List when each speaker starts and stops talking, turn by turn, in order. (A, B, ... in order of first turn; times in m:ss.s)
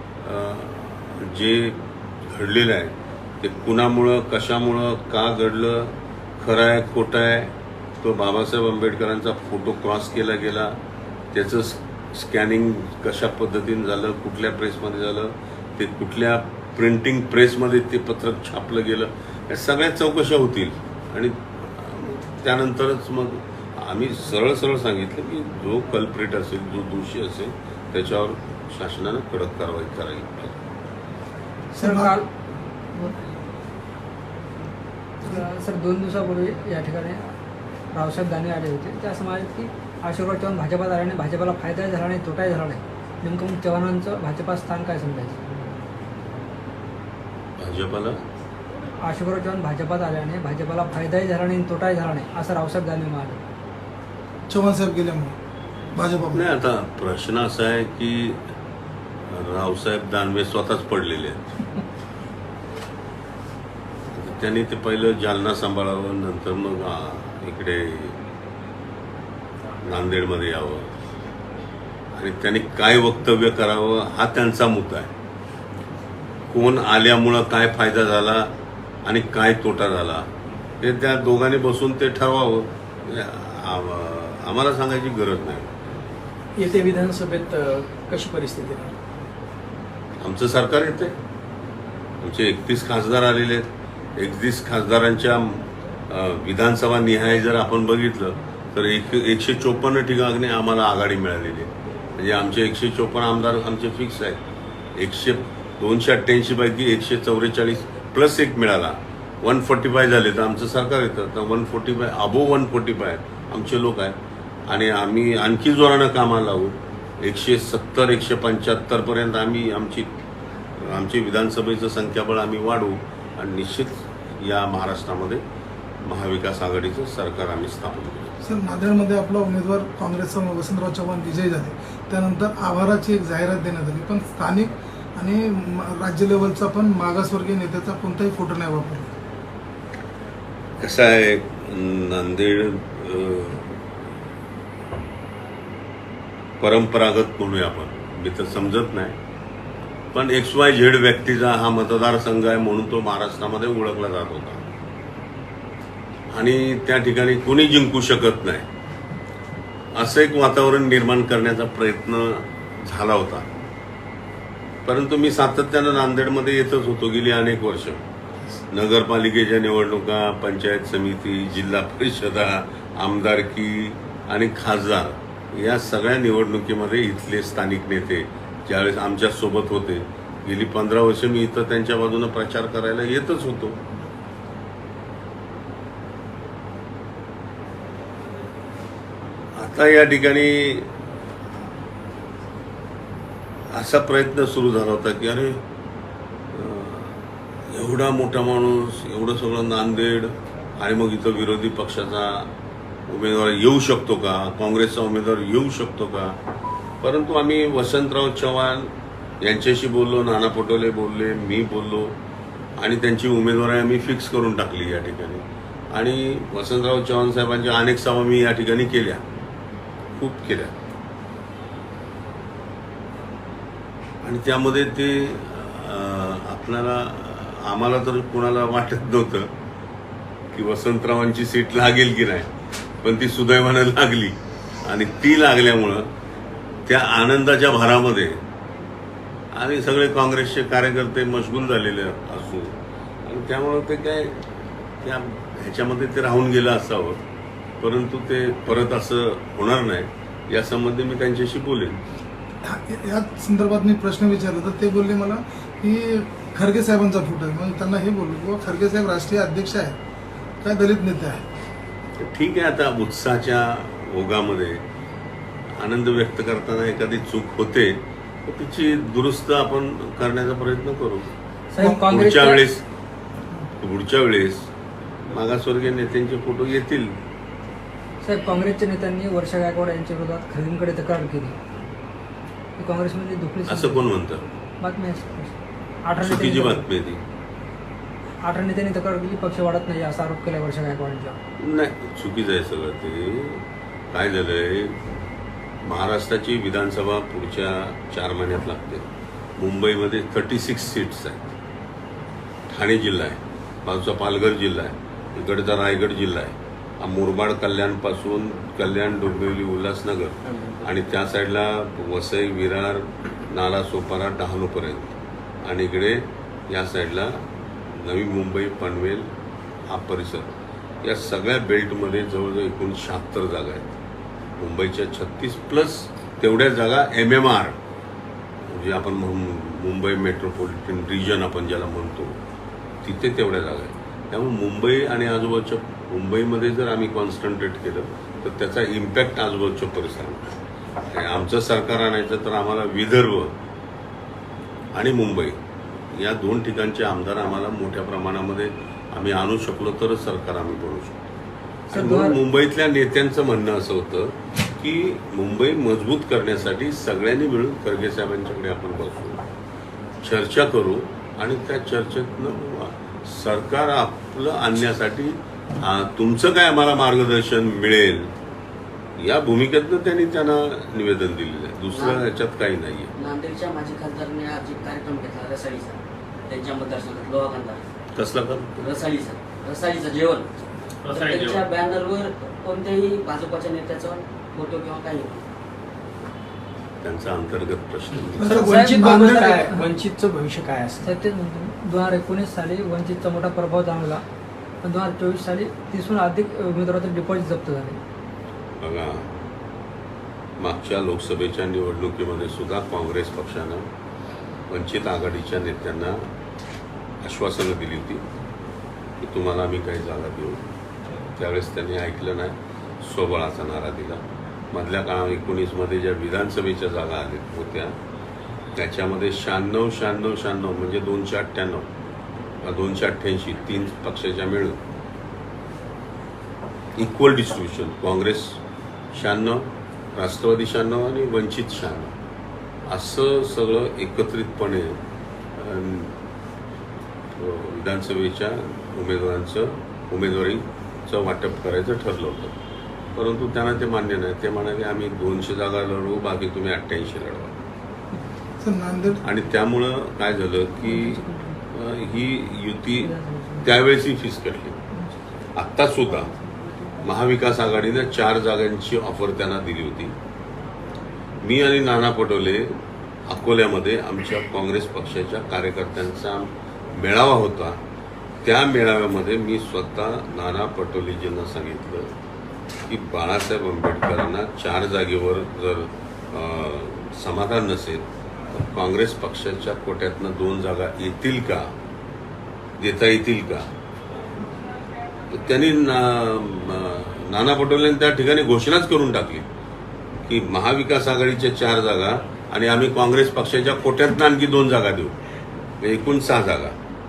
0:00.2-0:10.8 A
0:11.3-0:30.6 A
0:31.7-0:32.3 B
0:31.8-0:32.2 C
0:35.2-0:37.2 B
0:37.9-0:45.4 B
0:47.6-0:48.2 A
0:49.0-0:53.4 B
0:54.5-0:55.4 C
0:56.0-0:56.4 C
0:56.3-0:58.4 A
0:59.3-1:01.5 A
1:04.1-1:08.2 A
1:09.8-1:10.9 A
1:12.1-1:15.1 A
1:16.5-1:18.5 A
1:19.0-1:20.3 A
1:20.8-1:25.7 A
1:26.6-1:29.0 D
1:30.2-1:31.1 A
1:32.2-1:44.4 A
1:45.0-2:00.1 A
2:00.8-2:05.4 A
2:06.1-2:08.4 A
2:08.4-2:19.1 C
2:20.8-2:23.8 A
2:26.6-2:29.2 A
2:30.1-2:34.6 A
2:36.3-2:38.7 A
2:40.0-2:43.5 A
2:44.9-2:48.0 A
2:48.7-3:03.8 A
3:09.6-3:10.9 A
3:13.7-3:15.6 A
3:16.5-3:22.5 A
3:23.1-3:26.4 A
3:27.0-3:28.9 A
3:29.4-3:32.2 A
3:32.8-3:39.2 A
3:40.2-3:40.7 A
3:44.2-3:49.5 A
3:50.5-3:52.5 A
3:53.0-3:56.1 A
3:56.9-3:58.4 A
3:59.5-4:04.4 A
4:05.0-4:07.2 A
4:07.8-4:12.0 A
4:12.6-4:20.0 C
4:20.6-4:21.4 C
4:22.2-4:24.8 A
4:25.8-4:31.3 A
4:31.7-4:32.7 B
4:31.9-4:32.8 A
4:33.8-4:34.6 A
4:35.3-4:37.2 A
4:38.2-4:41.6 B
4:42.8-4:44.1 B
4:43.7-4:44.4 A
4:44.8-4:45.5 B
4:46.1-4:46.9 B
4:46.2-4:47.2 A
4:48.5-4:51.4 B
4:51.6-4:55.0 A
4:55.8-4:59.1 A
4:59.6-5:01.5 A
5:02.7-5:19.3 A
5:19.9-5:20.5 A
5:21.0-5:23.9 A
5:24.6-5:27.8 A
5:28.7-5:32.4 A
5:33.0-5:40.5 A
5:41.1-5:43.5 A
5:45.0-5:45.6 A
5:46.1-5:51.2 A
5:51.9-5:52.4 B
5:51.9-5:59.4 A
6:00.2-6:08.3 A
6:09.2-6:13.1 A
6:11.9-6:12.2 E
6:13.2-6:17.9 E
6:18.1-6:18.9 A
6:18.8-6:20.5 E
6:21.1-6:25.5 E
6:21.1-6:21.6 D
6:27.0-6:28.7 A
6:28.4-6:29.7 C
6:28.4-6:31.1 D
6:28.5-6:29.9 B
6:31.0-6:34.2 B
6:34.8-6:38.0 B
6:38.8-6:39.4 A
6:40.6-6:43.8 A
6:44.7-6:46.3 A
6:47.2-6:48.2 A
6:49.2-6:50.6 A
6:51.4-6:58.0 A
6:58.8-7:01.9 A
7:02.6-7:04.8 A
7:07.0-7:08.6 A
7:09.1-7:12.1 A
7:12.9-7:15.0 A
7:15.6-7:16.2 A
7:17.3-7:22.6 A
7:23.1-7:27.6 A
7:28.6-7:29.2 C
7:29.2-7:31.2 A
7:30.8-7:31.6 B
7:31.7-7:34.8 A
7:33.0-7:33.7 B
7:35.6-7:36.3 A
7:37.0-7:40.1 A
7:41.4-7:47.8 A
7:48.4-7:52.1 A
7:52.9-8:01.7 A
8:02.8-8:03.7 A
8:05.3-8:09.5 A
8:10.2-8:15.1 A
8:15.8-8:16.8 A